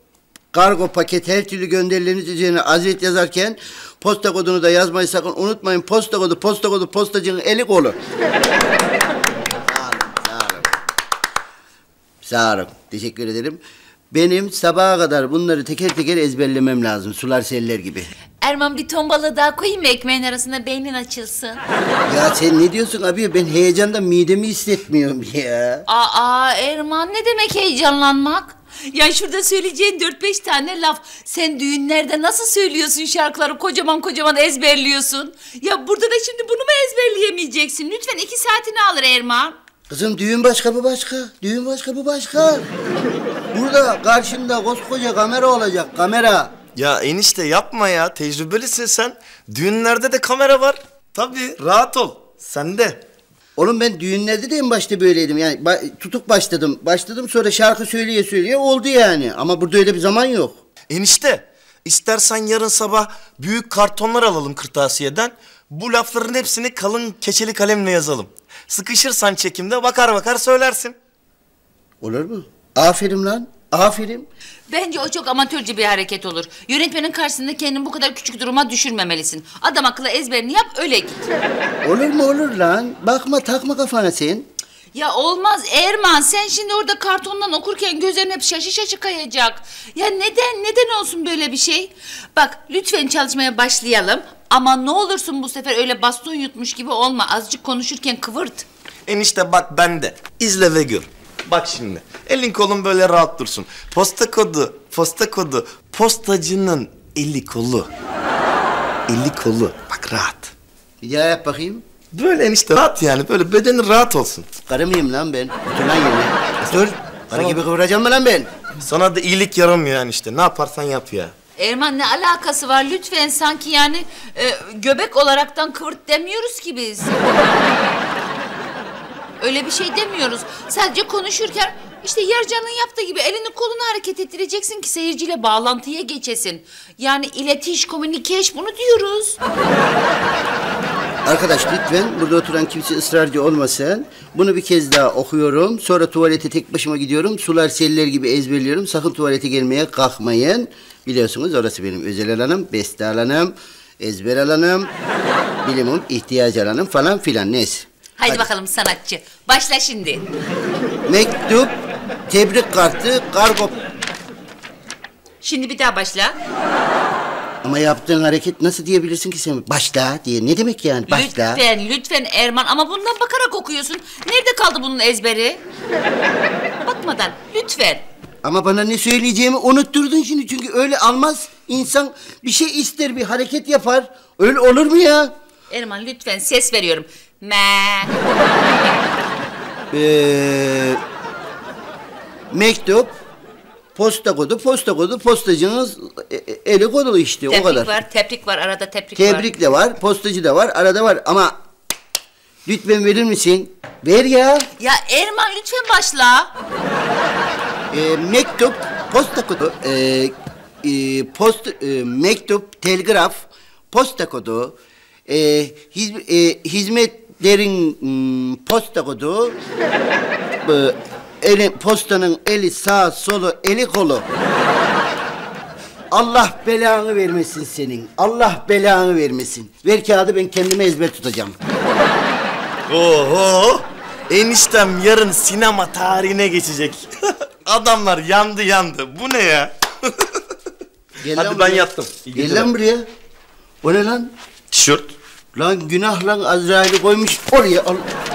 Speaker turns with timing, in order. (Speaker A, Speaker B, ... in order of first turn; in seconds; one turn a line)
Speaker A: 0.5-8.0
Speaker A: 9.7-10.7
Speaker A: 12.2-13.6
Speaker A: 14.1-18.1
Speaker B: 18.4-21.6
Speaker A: 22.1-25.9
Speaker B: 25.9-39.5
Speaker A: 39.9-42.6
Speaker A: 43.5-46.5
Speaker C: 46.7-53.0
Speaker A: 53.6-60.6
Speaker C: 60.9-71.0
Speaker A: 72.0-74.3
Speaker B: 74.7-81.2
Speaker A: 81.8-84.5
Speaker B: 84.9-98.7
Speaker C: 99.1-107.9
Speaker C: 109.1-110.5
Speaker A: 111.0-111.8
Speaker C: 112.1-114.5
Speaker A: 114.7-118.5
Speaker C: 117.3-117.6
Speaker C: 118.8-121.3
Speaker B: 121.6-127.3
Speaker B: 129.4-139.4
Speaker A: 141.2-154.9
Speaker A: 155.6-158.4
Speaker B: 158.2-160.2
Speaker A: 161.1-161.7
Speaker A: 162.3-163.8
Speaker B: 165.4-166.4
Speaker A: 167.6-171.6
Speaker B: 171.1-175.6
Speaker B: 176.8-178.0
Speaker A: 178.4-185.3
Speaker B: 185.7-188.1
Speaker A: 189.9-191.0
Speaker A: 192.5-193.1
Speaker A: 193.9-197.9
Speaker B: 197.5-199.5
Speaker A: 199.2-201.6
Speaker A: 202.7-204.7
Speaker B: 204.8-206.5
Speaker A: 207.9-214.8
Speaker A: 215.3-219.6
Speaker A: 220.7-224.2
Speaker A: 226.1-231.6
Speaker C: 232.9-237.1
Speaker C: 237.7-240.4
Speaker A: 241.2-243.1
Speaker C: 241.3-242.7
Speaker A: 243.8-244.3
Speaker C: 244.7-245.2
Speaker A: 245.5-248.1